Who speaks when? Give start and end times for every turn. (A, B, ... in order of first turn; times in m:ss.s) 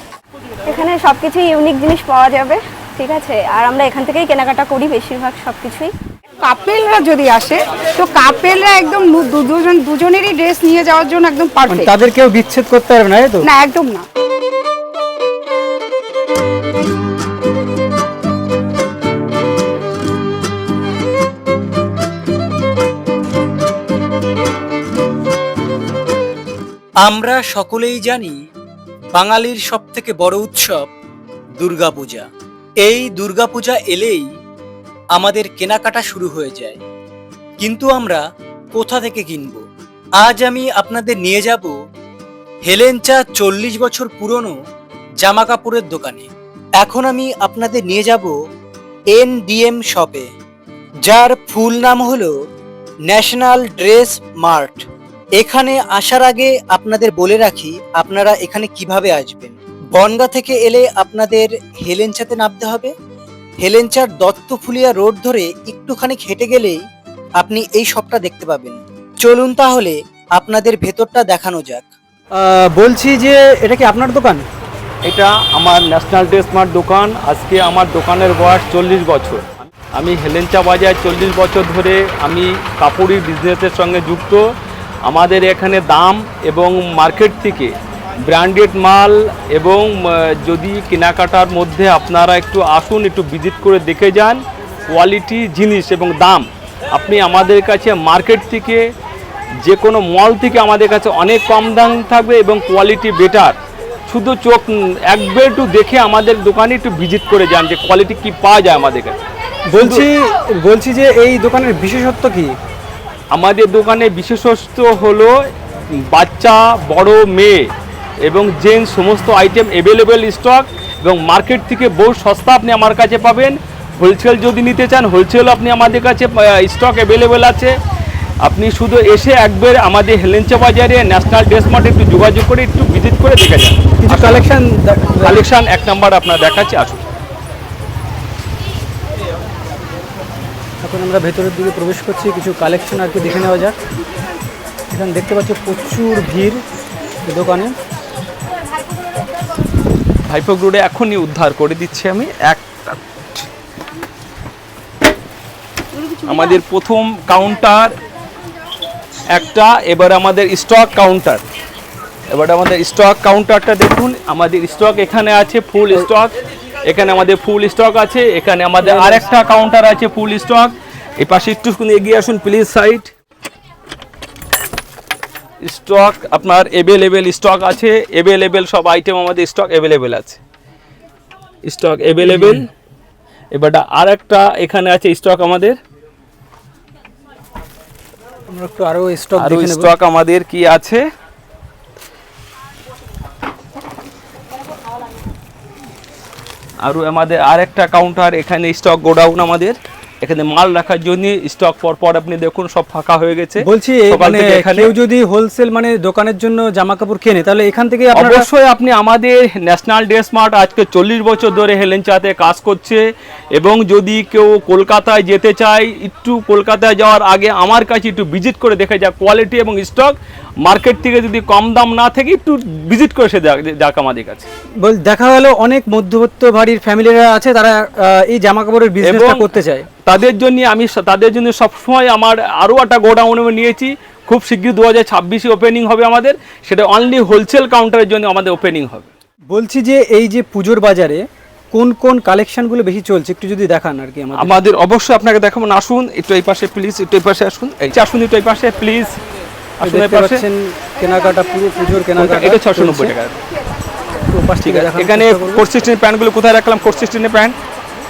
0:00.6-0:05.9 A
0:06.4-0:11.9 B
0:11.6-0:13.5 C
0:13.4-0:14.0 B
0:27.0-0:28.4 D
0:29.2-0:30.9 D
0:31.6-0:32.2 D
0:32.8-0:34.2 D
0:35.1-0:36.8 D
0:37.6-0:38.2 D
0:38.7-0:39.6 D
0:40.2-0:41.7 D
0:42.6-0:44.5 D
0:45.2-0:46.2 D
0:46.8-0:48.4 D
0:49.1-0:50.3 D
0:51.0-0:52.3 D
0:53.1-0:54.8 D
0:55.4-1:02.9 D
1:03.6-1:06.8 D
1:07.4-1:11.8 D
1:12.3-1:14.4 C
1:15.0-1:24.4 E
1:25.0-1:27.7 E
1:28.2-1:38.8 E
1:39.6-1:43.6 E
1:44.1-1:49.2 E
1:49.7-1:52.5 C
1:49.8-1:50.0 E
1:53.3-1:55.3 E
1:56.1-1:57.7 E
1:58.2-2:07.7 E
2:08.4-2:14.5 E
2:14.0-2:15.4 C
2:15.2-2:17.0 E
2:20.8-2:23.8 C
2:24.9-2:26.6 C
2:27.2-2:27.7 C
2:30.3-2:33.4 E
2:36.2-2:37.9 E
2:39.3-2:41.4 E
2:42.3-2:46.3 E
2:46.8-2:53.1 E
2:48.8-2:49.2 C
2:55.6-3:00.4 E
3:01.6-3:02.7 E
3:02.2-3:02.6 C
3:03.5-3:05.8 E
3:08.5-3:09.9 C
3:09.4-3:11.0 E
3:16.8-3:24.9 E
3:23.6-3:28.5 C
3:28.1-3:33.0 E
3:33.6-3:44.5 E
3:44.8-3:49.9 C
3:49.0-3:49.4 E
3:50.0-3:59.1 E
3:59.5-4:04.6 C
4:04.4-4:09.2 E
4:09.8-4:10.4 E
4:09.8-4:13.1 C
4:12.2-4:13.3 E
4:14.3-4:15.6 C
4:14.6-4:17.6 E